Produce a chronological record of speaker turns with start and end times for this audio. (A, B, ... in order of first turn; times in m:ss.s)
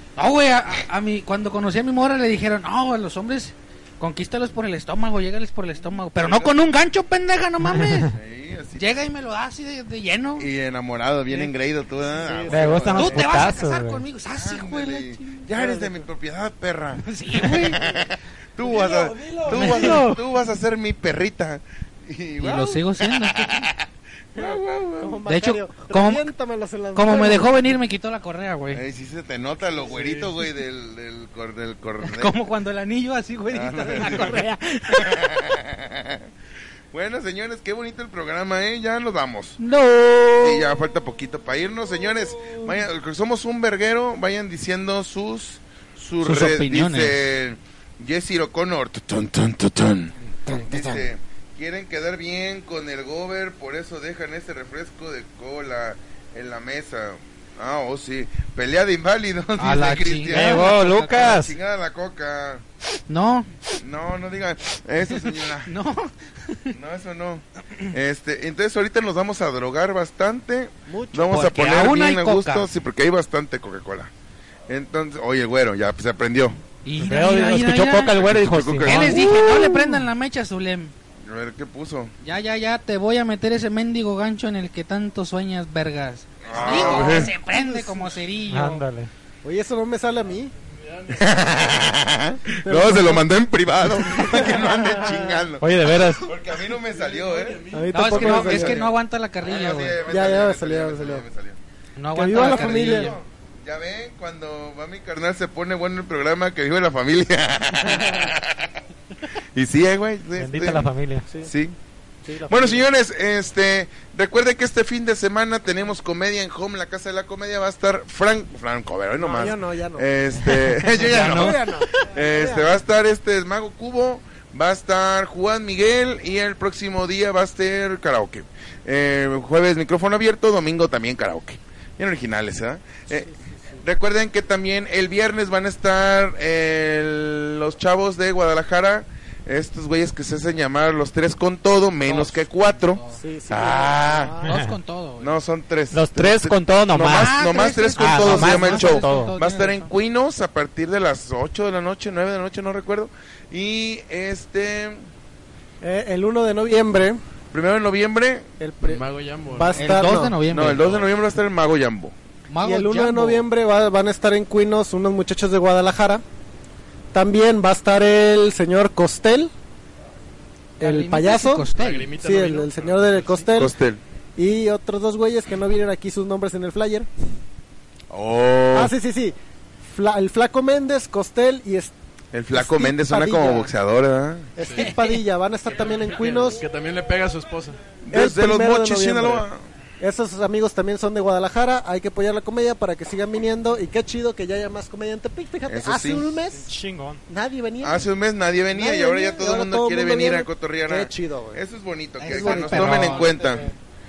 0:00.2-0:08.1 A
0:06.2-0:06.6 B
0:07.7-0:08.1 C
0:08.1-0:09.0 B
0:08.8-0:10.5 A
0:10.4-0:13.3 B
0:12.1-0:13.1 D
0:12.5-0:14.0 C
0:12.9-0:15.4 A
0:14.3-0:25.2 B
0:15.5-0:16.0 D
0:17.0-0:17.8 A
0:18.6-0:20.1 D
0:19.5-0:20.2 A
0:22.4-0:23.7 A
0:25.0-0:27.6 D
0:25.2-0:26.3 A
0:26.9-0:28.8 A
0:28.7-0:32.3 B
0:29.8-0:30.3 D
0:32.0-0:35.1 A
0:33.5-0:36.3 B
0:36.9-0:39.6 B
0:39.6-0:40.7 A
0:40.4-1:02.6 B
0:46.2-0:47.2 A
0:50.4-0:51.0 D
0:59.6-1:01.3 A
1:00.3-1:01.5 C
1:03.1-1:03.5 A
1:03.8-1:05.7 B
1:05.6-1:06.8 A
1:06.7-1:14.1 B
1:10.9-1:11.4 D
1:11.3-1:12.7 A
1:14.7-1:16.6 B
1:16.8-1:18.2 A
1:17.0-1:19.4 C
1:18.2-1:19.7 B
1:18.8-1:20.9 A
1:21.2-1:22.1 B
1:22.2-1:28.8 A
1:26.4-1:27.3 B
1:26.5-1:28.2 D
1:28.5-1:29.1 C
1:29.4-1:30.5 D
1:30.7-1:31.7 E
1:31.1-1:41.6 B
1:32.6-1:33.3 D
1:34.0-1:35.5 D
1:35.6-1:36.2 C
1:36.7-1:38.6 E
1:37.7-1:38.8 D
1:37.9-1:40.0 A
1:40.0-1:41.2 D
1:42.0-1:43.2 A
1:42.1-1:43.2 D
1:42.3-1:48.8 B
1:47.8-1:48.3 D
1:49.5-1:50.9 B
1:50.4-1:51.3 C
1:51.4-1:51.8 B
1:52.2-1:52.8 D
1:52.5-2:13.3 B
1:59.2-2:02.8 D
2:01.2-2:01.5 C
2:13.1-2:13.8 D
2:13.8-2:24.3 B
2:22.0-2:23.2 A
2:23.1-2:24.6 D
2:24.4-2:25.4 A
2:24.5-2:24.7 C
2:25.2-2:35.1 B
2:25.9-2:27.4 C
2:27.0-2:29.9 A
2:28.0-2:29.3 C
2:35.8-2:37.2 D
2:37.5-2:38.5 B
2:38.6-2:40.4 D
2:38.8-2:40.1 E
2:39.7-2:40.9 A
2:40.5-2:42.1 B
2:40.6-2:41.1 E
2:42.5-2:43.5 A
2:42.6-2:46.2 D
2:47.1-2:49.5 D
2:50.8-2:52.1 A
2:50.8-2:53.7 D
2:51.7-2:53.5 E
2:53.6-2:54.0 B
2:54.4-2:57.1 D
2:58.1-2:58.9 B
2:58.7-3:01.9 D
3:02.3-3:04.5 B
3:02.5-3:03.7 D
3:04.6-3:06.6 D
3:04.6-3:04.9 E
3:04.8-3:05.2 A
3:05.7-3:08.0 E
3:08.0-3:09.6 B
3:08.1-3:09.4 D
3:10.0-3:16.7 D
3:15.7-3:16.4 B
3:16.6-3:17.2 C
3:17.3-3:18.1 D
3:17.8-3:23.7 B
3:18.7-3:21.6 D
3:22.2-3:23.4 A
3:22.2-3:23.7 D